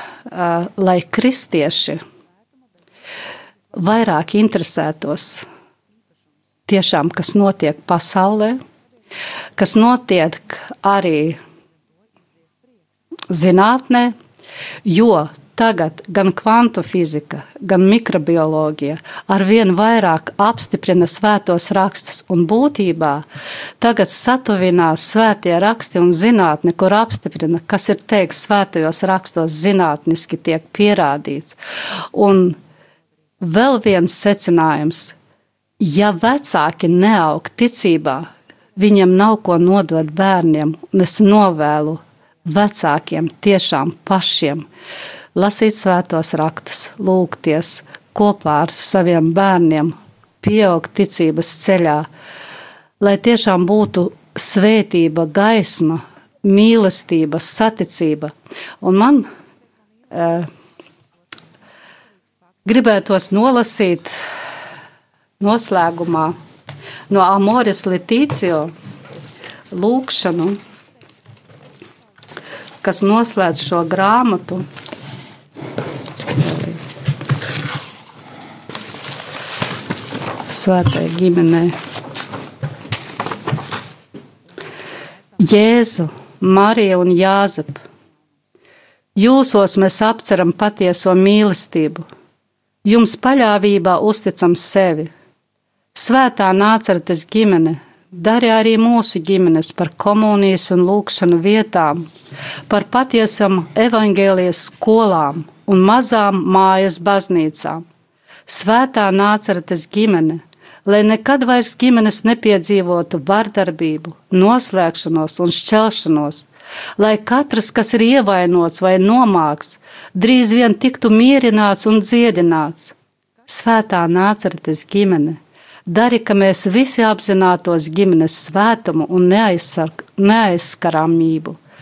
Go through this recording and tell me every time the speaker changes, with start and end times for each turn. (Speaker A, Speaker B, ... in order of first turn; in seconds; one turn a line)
Speaker A: 0.3-2.0
Speaker A: 3.7-5.5
Speaker A: 6.7-8.6
Speaker A: 9.6-11.4
Speaker A: 13.3-14.1
Speaker A: 14.8-23.2
Speaker A: 23.8-31.6
Speaker A: 32.1-32.6
Speaker A: 33.4-35.1
Speaker A: 35.8-44.6
Speaker A: 45.3-52.1
Speaker A: 53.0-59.3
Speaker A: 60.1-60.5
Speaker A: 62.6-64.1
Speaker A: 65.4-66.3
Speaker A: 67.1-68.7
Speaker A: 69.7-70.6
Speaker A: 72.8-74.7
Speaker A: 76.3-76.8
Speaker A: 80.5-81.8
Speaker A: 85.4-87.8
Speaker A: 89.2-92.0
Speaker A: 92.8-95.1
Speaker A: 95.9-102.0
Speaker A: 102.7-107.8
Speaker A: 108.5-116.5
Speaker A: 117.0-122.9
Speaker A: 123.5-131.6